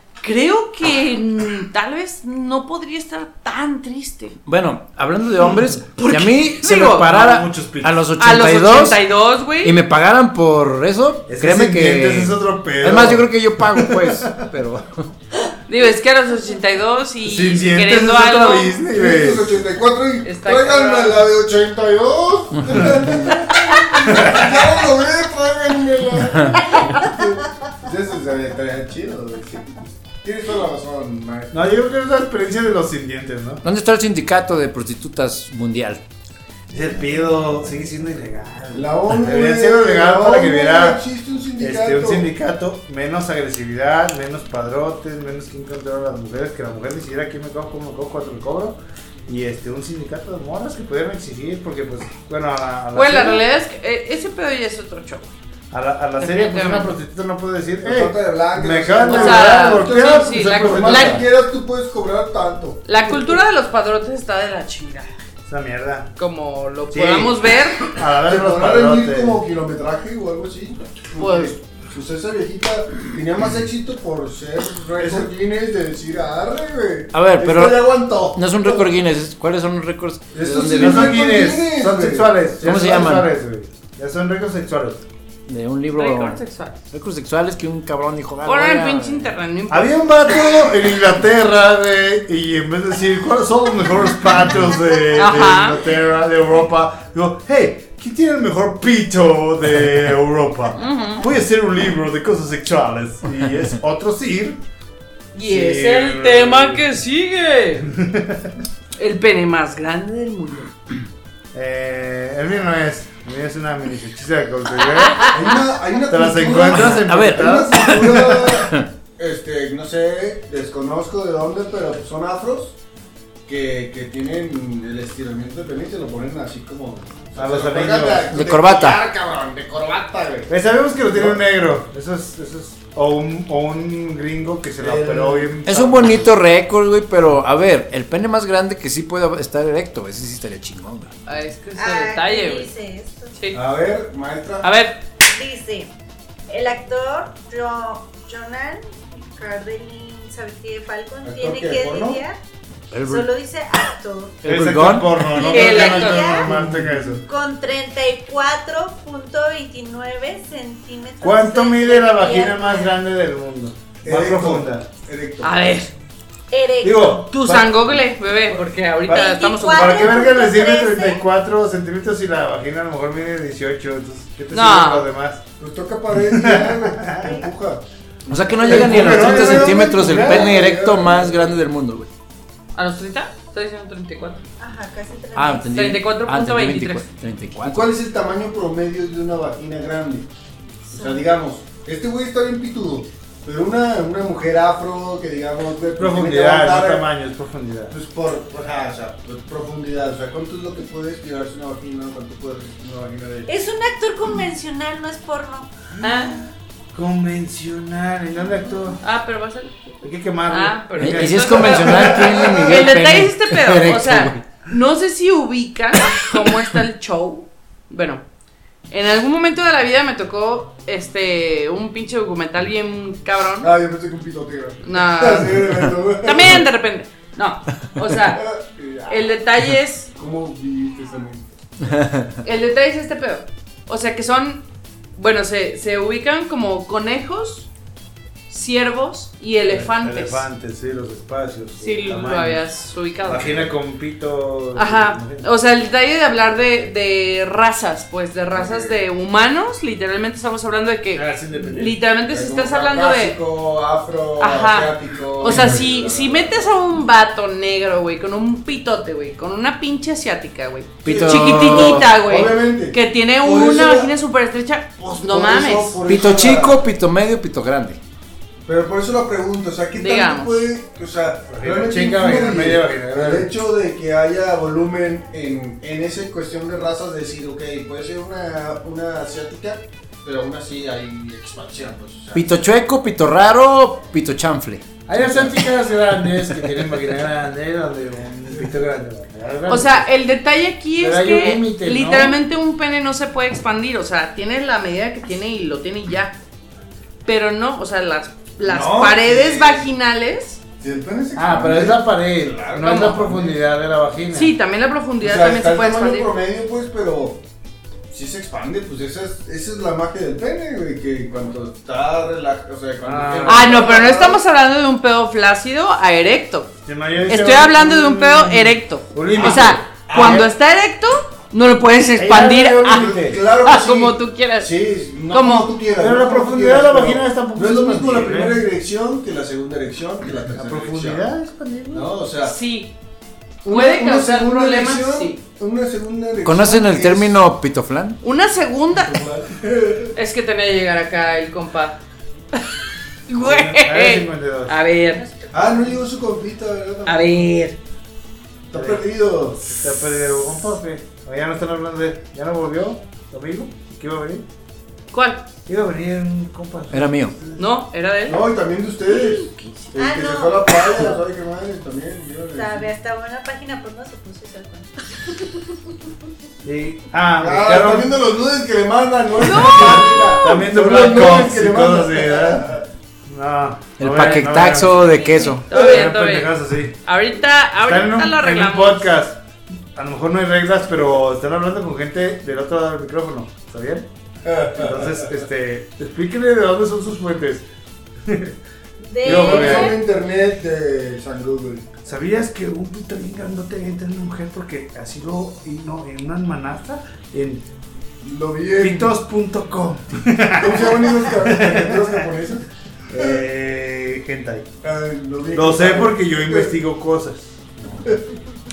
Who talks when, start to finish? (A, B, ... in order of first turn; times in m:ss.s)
0:00.2-0:04.4 A
0:04.5-0:09.0 B
0:06.0-0:07.1 A
0:07.0-0:08.1 C
0:08.2-0:09.8 A
0:09.6-0:15.1 B
0:11.3-0:14.4 C
0:15.7-0:18.8 A
0:17.2-0:19.6 C
0:18.9-0:31.7 D
0:20.2-0:21.2 A
0:24.0-0:24.5 C
0:31.5-0:33.6 C
0:33.6-0:36.0 B
0:36.7-0:41.0 C
0:38.7-0:42.3 D
0:41.6-0:53.5 C
0:52.9-0:55.3 A
0:55.7-1:01.2 C
0:56.2-0:57.0 A
0:57.8-1:02.9 D
0:59.1-1:01.2 A
1:02.8-1:05.1 A
1:05.5-1:06.1 C
1:06.2-1:07.9 A
1:06.9-1:09.4 C
1:08.2-1:18.9 D
1:11.2-1:11.6 A
1:15.0-1:15.3 C
1:17.1-1:21.2 B
1:20.3-1:23.2 D
1:20.6-1:25.0 C
1:22.6-1:23.3 B
1:25.5-1:29.3 B
1:25.9-1:26.8 A
1:28.4-1:30.3 A
1:29.7-1:44.6 C
1:35.2-1:35.8 A
1:40.8-1:41.2 A
1:45.3-1:47.9 A
1:45.4-1:46.8 C
1:47.9-1:48.5 C
1:49.0-1:50.7 A
1:51.5-1:58.1 C
1:55.0-1:55.3 A
1:55.3-2:02.8 D
1:56.7-1:58.9 B
2:03.5-2:10.5 D
2:07.4-2:08.4 C
2:08.3-2:09.0 B
2:10.5-2:16.3 C
2:11.1-2:11.4 D
2:14.8-2:15.6 D
2:15.6-2:21.1 B
2:21.3-2:22.7 A
2:21.8-2:23.3 E
2:23.3-2:23.6 A
2:23.5-2:24.7 D
2:24.6-2:25.0 A
2:25.3-2:25.9 E
2:26.5-2:32.4 E
2:31.2-2:32.2 D
2:32.9-2:33.3 B
2:33.1-2:34.4 E
2:34.4-2:35.5 B
2:34.4-2:37.2 C
2:35.4-2:36.7 E
2:35.5-2:36.5 A
2:36.5-2:37.2 D
2:37.2-2:43.0 E
2:41.2-2:44.9 C
2:44.0-2:45.5 D
2:45.4-2:45.9 A
2:46.5-2:47.2 E
2:46.8-2:48.0 C
2:47.3-2:50.1 A
2:49.0-2:55.4 C
2:49.1-2:51.2 E
2:54.5-2:55.1 A
2:55.6-2:57.8 D
2:56.3-2:57.3 C
2:58.3-3:02.1 B
2:58.5-3:01.5 D
2:58.6-3:00.5 C
3:02.8-3:04.4 A
3:04.6-3:05.7 E
3:05.4-3:08.0 B
3:05.7-3:07.0 A
3:07.6-3:10.3 D
3:10.9-3:11.2 E
3:10.9-3:17.1 D
3:16.0-3:17.9 C
3:17.9-3:23.5 D
3:23.5-3:25.7 E
3:26.0-3:29.0 C
3:26.0-3:26.4 A
3:29.0-3:30.0 A
3:30.0-3:32.6 C
3:30.5-3:38.2 A
3:31.0-3:34.4 B
3:38.9-3:43.7 A
3:43.6-3:46.6 D
3:44.8-3:48.5 A
3:48.3-3:49.3 D
3:49.1-3:50.1 A
3:50.2-3:51.5 D
3:51.9-3:52.3 B
3:52.4-3:54.6 A
3:55.2-3:57.7 A
3:58.5-4:00.5 A
3:59.6-4:02.7 C
4:01.8-4:03.7 A
4:03.2-4:05.5 C
4:04.8-4:13.4 A
4:08.6-4:09.0 D
4:11.1-4:11.8 C
4:11.5-4:16.7 D
4:14.4-4:26.0 A
4:21.0-4:22.1 B
4:21.0-4:24.1 D
4:25.0-4:26.8 D
4:26.1-4:28.0 B
4:28.7-4:42.6 D
4:29.9-4:30.6 A
4:31.5-4:33.5 C
4:42.3-4:45.7 B
4:45.1-4:50.1 C
4:49.7-4:56.4 A
4:51.0-4:52.4 C
4:57.2-5:00.6 A
4:58.6-4:59.9 D
5:00.8-5:03.6 D
5:01.4-5:04.5 C
5:02.8-5:03.2 A
5:04.3-5:06.3 A
5:05.2-5:07.4 D
5:08.1-5:14.4 D
5:13.0-5:13.9 C
5:13.4-5:16.7 A
5:16.9-5:20.5 C
5:17.3-5:24.8 A
5:22.2-5:23.4 C
5:22.2-5:31.3 D
5:25.3-5:25.7 A
5:26.0-5:28.6 C
5:30.6-5:32.1 C
5:31.9-5:32.6 D
5:32.4-5:32.9 A
5:33.6-5:37.4 D
5:33.7-5:35.4 A
5:36.4-5:38.2 B
5:38.2-5:39.2 A
5:38.9-5:40.2 D
5:40.2-5:42.0 A
5:43.3-5:45.2 A
5:43.4-5:44.8 C
5:45.1-5:45.9 E
5:45.5-5:47.5 D
5:47.1-5:47.8 A
5:48.7-5:49.6 D
5:48.8-5:54.5 C
5:55.1-5:55.5 A
5:55.7-5:57.6 C
5:56.9-5:57.4 B
5:57.6-5:58.5 A
5:58.3-6:02.9 D
5:59.1-5:59.7 A
5:59.9-6:01.2 E
6:02.5-6:05.6 E
6:06.6-6:08.2 C
6:07.4-6:12.8 D
6:09.4-6:10.7 A
6:10.4-6:12.7 C
6:13.3-6:15.2 C
6:14.0-6:15.7 B
6:15.1-6:15.6 E
6:15.7-6:16.5 A
6:15.7-6:17.0 C
6:15.7-6:16.1 D
6:17.0-6:19.1 A
6:17.8-6:19.4 C
6:20.0-6:24.1 C
6:24.5-6:25.2 D
6:24.7-6:27.7 C
6:28.3-6:28.6 C
6:29.0-6:30.0 E
6:29.2-6:30.0 C
6:29.2-6:31.9 D
6:32.0-6:37.6 C
6:38.2-6:39.2 D
6:38.8-6:42.3 C
6:40.6-6:42.6 D
6:43.1-6:44.7 C
6:44.8-6:46.8 D
6:45.5-6:47.6 C